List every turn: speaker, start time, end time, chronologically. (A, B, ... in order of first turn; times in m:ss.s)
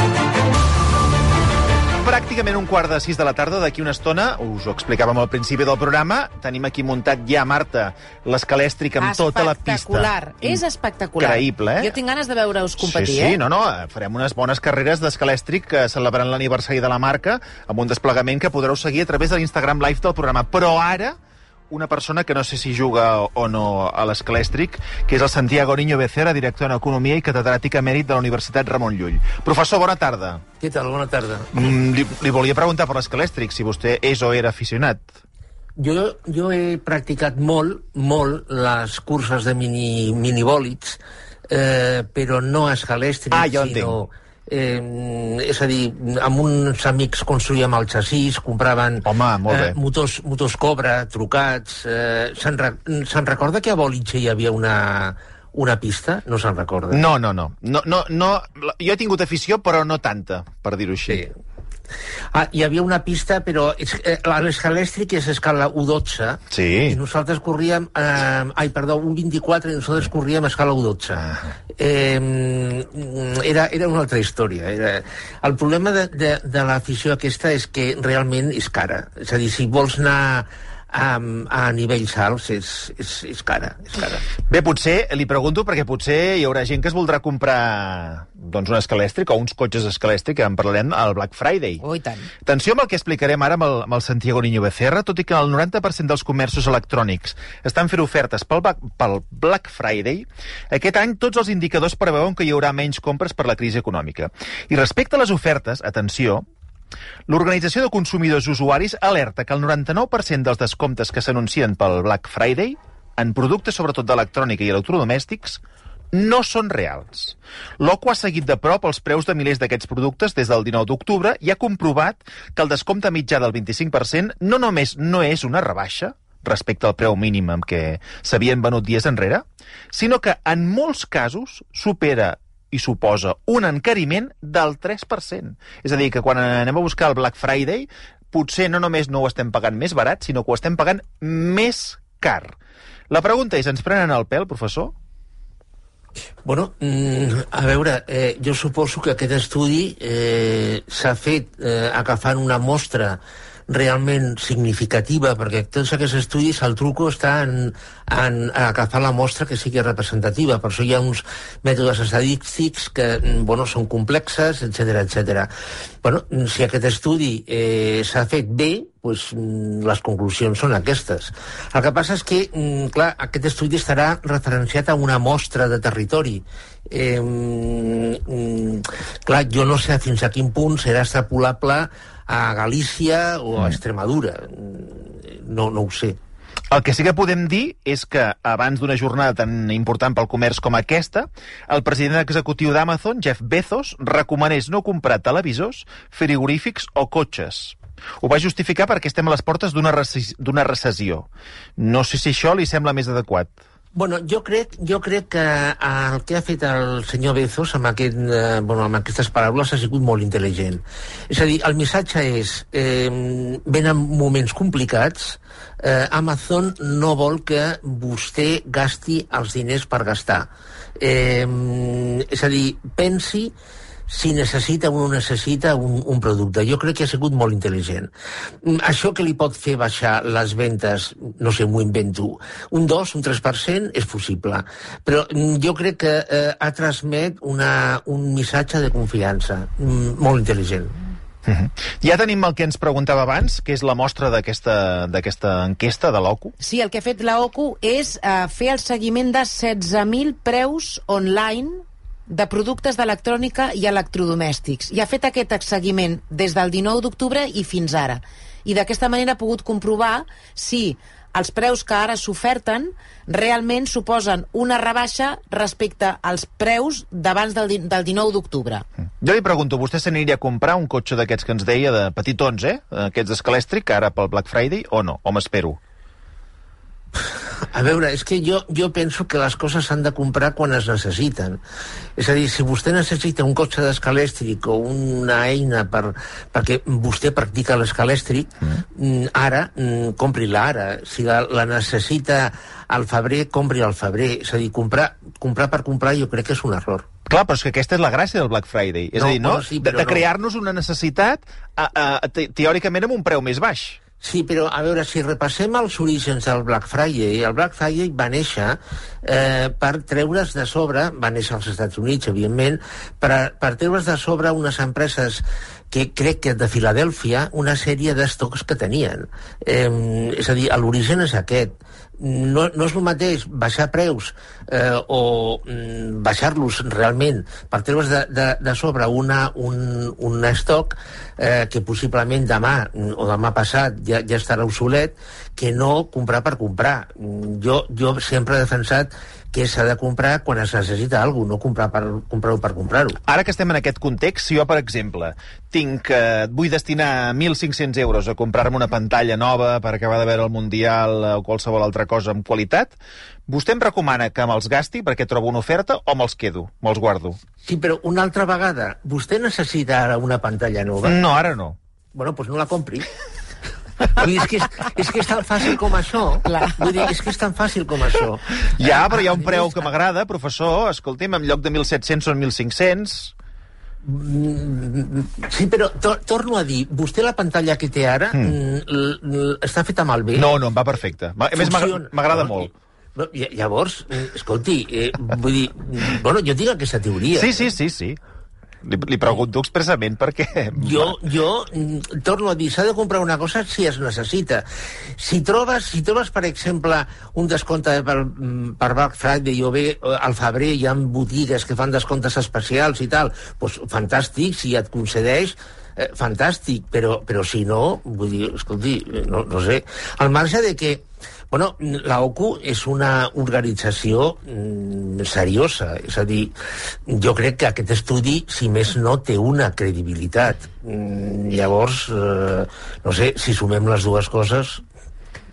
0:02.0-0:10.6 A
0:09.0-0:13.4 B
0:11.2-0:12.0 A
0:12.8-0:21.2 A
0:21.7-0:30.4 A
0:30.6-0:31.6 C
0:31.5-0:35.1 A
0:35.8-0:57.0 C
0:43.3-0:44.0 A
0:49.0-0:49.8 A
0:56.9-1:01.2 A
1:02.3-1:24.2 C
1:06.5-1:07.0 A
1:24.5-1:31.8 A
1:31.8-1:32.3 B
1:32.4-1:46.4 A
1:47.3-1:55.6 A
1:56.1-2:22.6 A
2:23.1-2:24.9 A
2:26.4-2:45.5 C
2:46.0-3:06.2 C
3:06.7-3:23.6 A
3:24.0-3:43.5 C
3:44.1-3:48.1 C
3:48.6-4:01.0 C
4:01.4-4:06.6 A
4:06.6-4:28.8 B
4:29.2-4:35.8 A
4:37.7-4:41.6 C
4:42.2-4:57.1 C
4:57.3-5:04.0 A
4:59.2-5:00.2 C
5:04.2-5:43.2 C
5:43.2-5:53.0 A
5:53.5-5:57.4 A
5:57.6-6:01.2 C
6:01.0-6:01.8 A
6:02.2-6:03.1 C
6:04.0-6:08.8 C
6:08.8-6:13.3 A
6:14.0-6:20.5 C
6:20.4-6:22.7 A
6:21.5-6:27.7 C
6:27.4-6:28.2 A
6:28.8-6:31.2 A
6:30.8-6:34.6 C
6:35.2-6:56.5 C
6:57.1-7:04.8 C